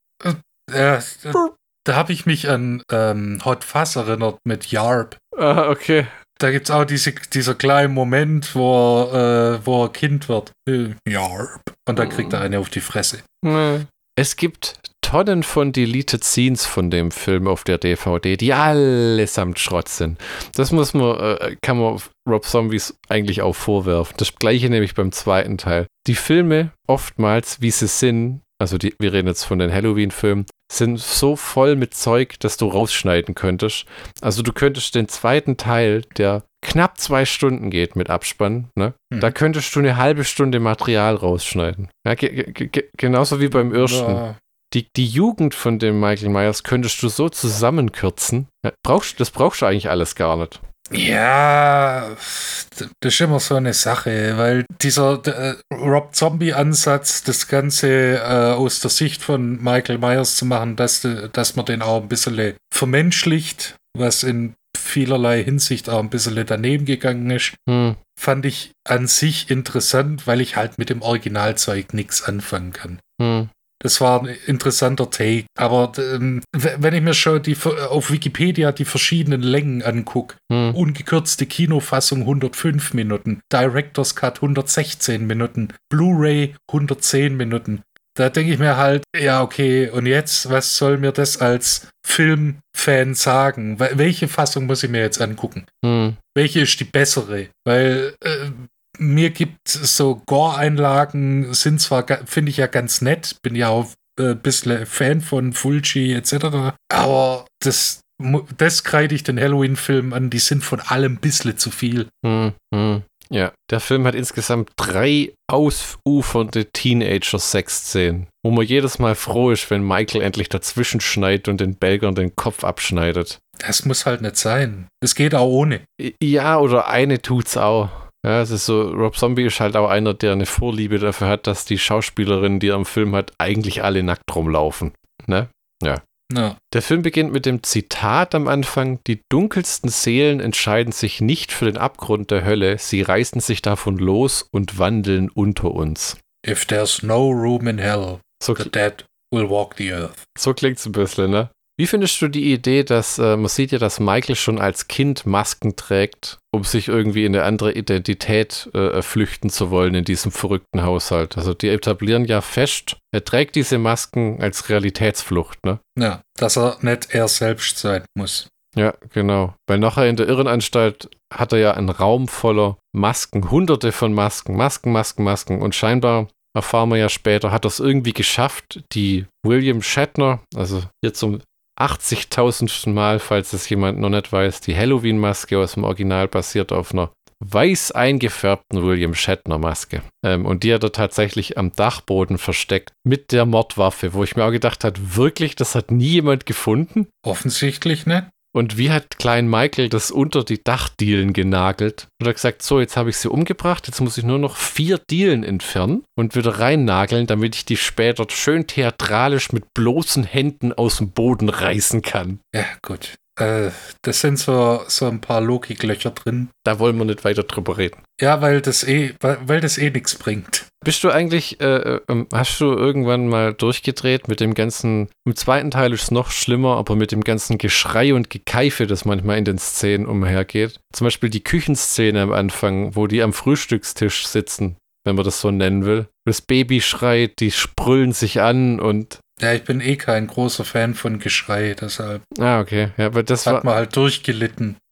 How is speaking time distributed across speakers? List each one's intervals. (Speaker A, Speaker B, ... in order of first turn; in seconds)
Speaker A: 0.2-5.2, 6.4-13.2, 43.5-44.4, 50.9-67.6, 68.2-73.0, 73.8-95.7, 96.3-112.1, 123.6-125.8, 136.3-136.6, 146.4-150.2, 166.0-168.5, 197.2-198.3, 212.5-216.5, 218.2-220.7, 239.4-242.2, 243.4-244.8
Speaker B: 5.4-6.1, 12.0-12.3, 13.4-50.6, 67.7-68.0, 73.2-73.5, 80.5-80.8, 95.8-96.2, 112.2-123.4, 126.0-136.0, 136.7-146.2, 148.4-148.7, 150.4-165.8, 168.8-197.1, 198.5-212.4, 216.6-218.0, 220.8-239.2, 242.4-243.7